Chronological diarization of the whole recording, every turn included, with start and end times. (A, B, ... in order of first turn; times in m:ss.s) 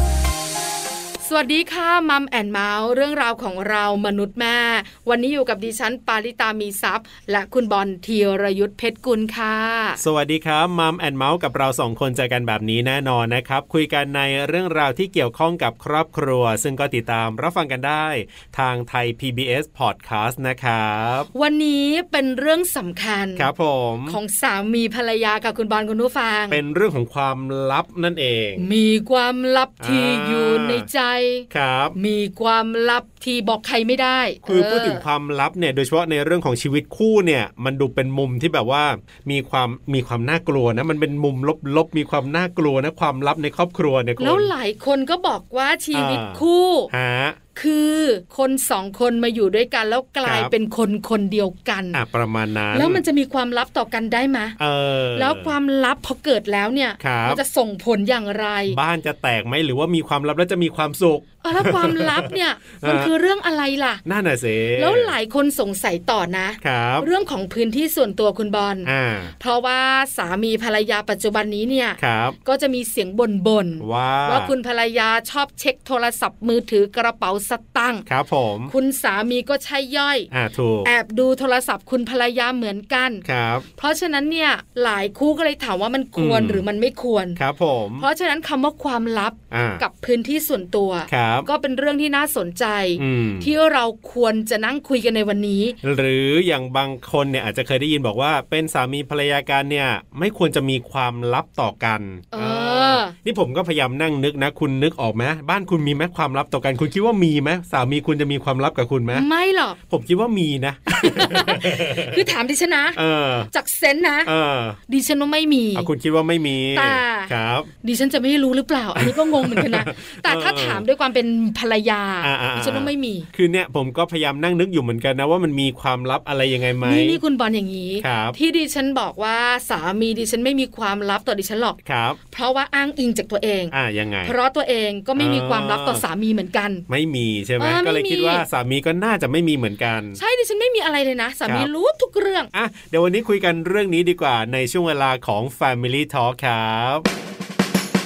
0:01.2-0:10.0 A
0:10.0-0:21.3 B
0:21.3-0:23.5 A
0:23.4-0:24.2 B
0:24.1-0:26.6 A
0:26.5-0:28.7 B
0:28.6-0:35.0 A
0:29.8-0:30.9 B
0:31.5-0:32.0 B
0:34.4-0:44.5 B
0:44.2-0:46.9 A
0:45.9-0:47.4 B
0:47.5-0:52.0 A
0:50.2-0:50.5 B
0:51.9-0:53.0 B
0:52.7-0:54.6 A
0:54.6-0:55.5 B
0:55.1-0:58.8 A
0:57.0-0:57.4 B
0:58.7-1:03.1 B
1:01.4-1:04.0 A
1:04.0-1:05.2 B
1:04.7-1:18.0 A
1:06.6-1:07.1 B
1:08.8-1:09.3 B
1:12.0-1:12.4 B
1:13.8-1:14.5 B
1:18.1-1:18.7 B
1:18.7-1:20.3 A
1:20.3-1:20.9 B
1:20.8-1:23.2 A
1:23.2-1:23.6 B
1:23.8-1:27.4 A
1:26.2-1:26.6 B
1:27.4-1:28.1 B
1:28.0-1:35.8 A
1:29.5-1:29.8 B
1:31.1-1:31.5 B
1:33.0-1:33.5 B
1:35.8-1:49.3 B
1:42.3-1:43.1 A
1:49.1-1:49.8 A
1:49.9-1:52.3 B
1:50.9-1:53.0 A
1:52.9-1:53.5 B
1:53.5-1:54.3 A
1:54.2-1:54.8 B
1:54.9-1:55.9 A
1:55.7-1:57.7 B
1:56.7-2:03.3 A
1:59.0-2:00.8 B
2:02.2-2:07.2 B
2:06.8-2:16.8 A
2:08.0-2:08.4 B
2:11.8-2:12.2 B
2:13.7-2:14.3 B
2:15.2-2:16.0 B
2:16.9-2:20.2 B
2:17.6-2:18.4 A
2:20.2-2:22.5 A
2:21.4-2:21.7 B
2:22.5-2:27.1 B